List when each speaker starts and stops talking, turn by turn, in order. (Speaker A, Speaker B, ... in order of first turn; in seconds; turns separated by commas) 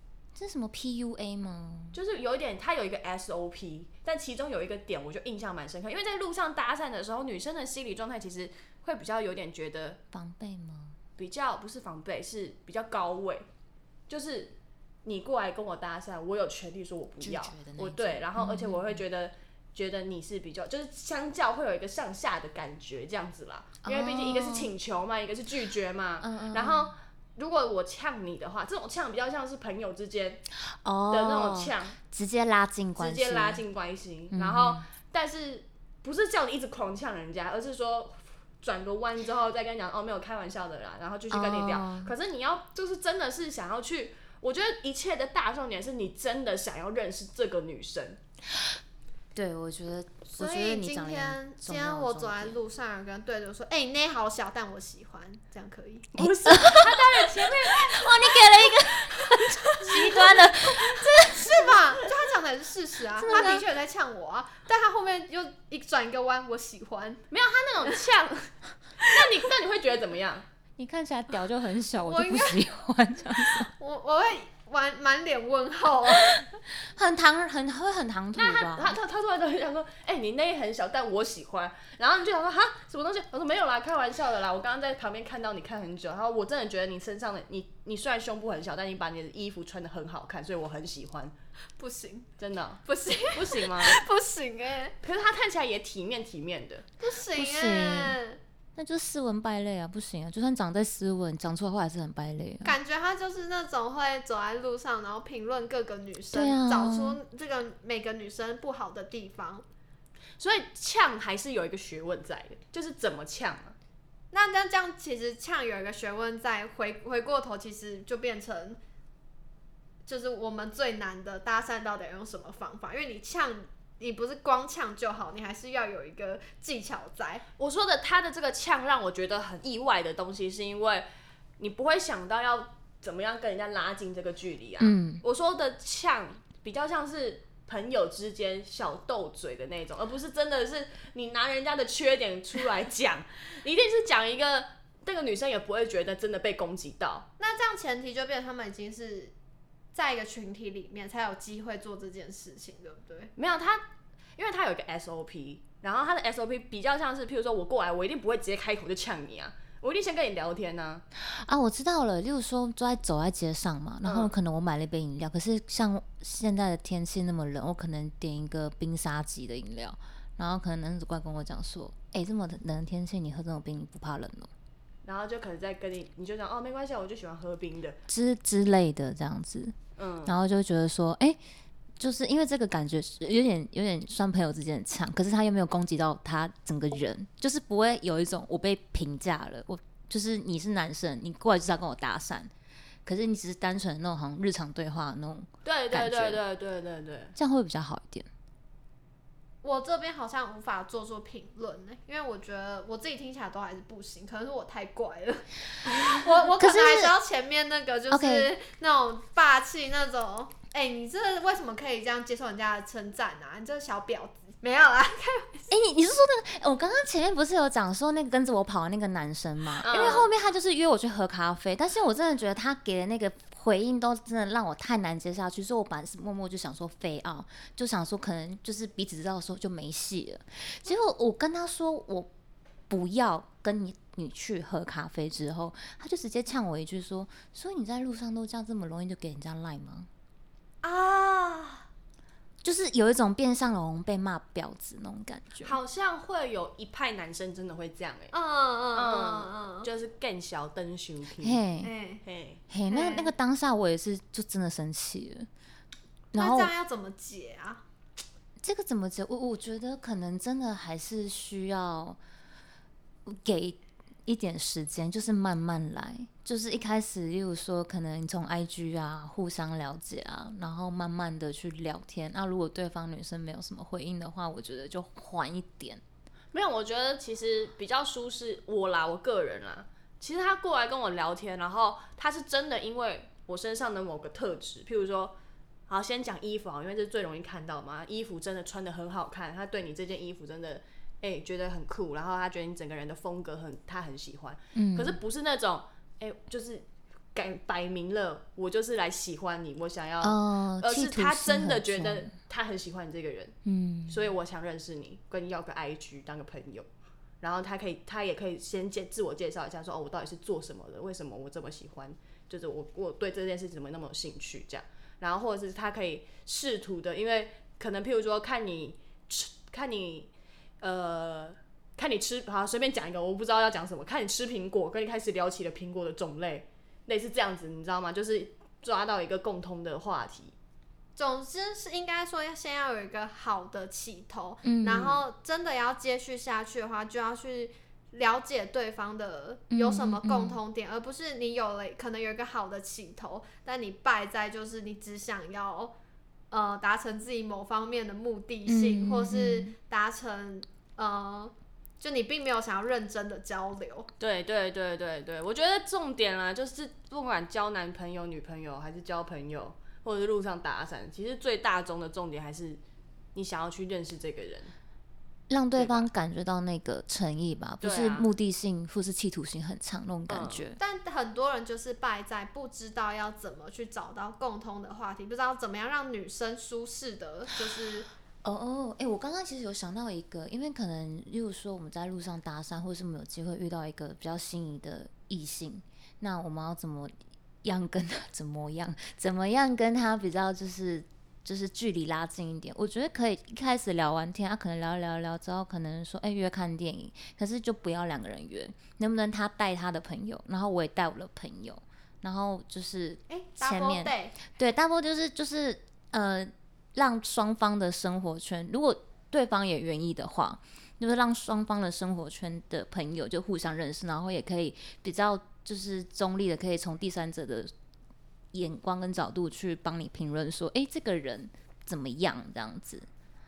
Speaker A: 0.3-2.0, Speaker B: 1.9-10.0, Speaker A: 10.1-11.0, Speaker B: 11.2-13.5, Speaker B: 14.1-30.4, Speaker A: 17.2-19.0, Speaker A: 23.8-24.7, Speaker A: 26.2-26.9, Speaker A: 30.7-33.6, Speaker B: 31.1-32.0, Speaker B: 33.0-48.2, Speaker A: 34.3-34.9, Speaker A: 41.3-42.1, Speaker A: 49.3-52.6, Speaker C: 50.3-56.1, Speaker B: 56.1-58.3, Speaker A: 56.2-61.7, Speaker C: 59.3-67.2, Speaker A: 63.1-63.6, Speaker B: 67.3-70.4, Speaker A: 70.8-73.7, Speaker C: 72.1-72.6, Speaker C: 73.6-76.5, Speaker A: 76.3-79.0, Speaker B: 78.3-91.3, Speaker C: 91.8-92.3, Speaker B: 92.4-94.0, Speaker C: 92.8-95.0, Speaker B: 95.0-96.8, Speaker C: 97.0-98.4, Speaker A: 97.3-98.2, Speaker A: 98.8-102.7, Speaker C: 102.6-109.6, Speaker A: 106.3-107.2, Speaker B: 110.4-113.8, Speaker C: 114.3-118.8, Speaker C: 120.0-127.4, Speaker B: 127.6-131.1, Speaker B: 131.6-147.3, Speaker A: 134.8-135.2, Speaker C: 147.4-149.3, Speaker C: 149.9-153.3, Speaker B: 153.4-153.8, Speaker B: 154.4-161.0, Speaker A: 161.2-174.5, Speaker B: 164.0-164.3, Speaker B: 175.0-178.0, Speaker A: 178.1-181.4, Speaker B: 180.0-180.4, Speaker A: 182.0-192.5, Speaker A: 193.1-196.4, Speaker B: 195.6-197.3, Speaker A: 197.3-198.3, Speaker C: 199.6-215.7, Speaker A: 206.1-207.1, Speaker A: 208.1-208.5, Speaker A: 215.7-232.3, Speaker B: 219.8-220.3, Speaker C: 219.9-220.2, Speaker A: 232.9-240.1, Speaker C: 240.8-241.9, Speaker A: 242.6-245.8, Speaker B: 245.6-248.3, Speaker C: 248.3-249.9, Speaker B: 248.9-251.6, Speaker A: 251.4-251.9, Speaker C: 251.8-252.2, Speaker B: 252.2-252.6, Speaker A: 252.7-255.5, Speaker C: 252.9-253.3, Speaker A: 256.3-256.7, Speaker C: 256.4-257.8, Speaker A: 258.6-262.2, Speaker A: 263.2-276.0, Speaker B: 276.5-285.4, Speaker B: 285.9-303.5, Speaker A: 294.7-295.2, Speaker A: 300.2-302.3, Speaker A: 303.6-304.2, Speaker B: 304.1-306.9, Speaker B: 307.4-330.5, Speaker C: 331.1-345.9, Speaker A: 334.6-335.1, Speaker B: 334.9-335.2, Speaker A: 339.7-340.6, Speaker C: 346.5-354.1, Speaker A: 348.6-349.7, Speaker B: 354.2-362.8, Speaker B: 363.3-364.7, Speaker A: 365.5-370.8, Speaker B: 365.8-366.1, Speaker B: 367.8-368.3, Speaker B: 370.3-370.6, Speaker C: 370.8-378.1, Speaker A: 378.4-417.7, Speaker C: 403.3-404.4, Speaker A: 418.5-423.1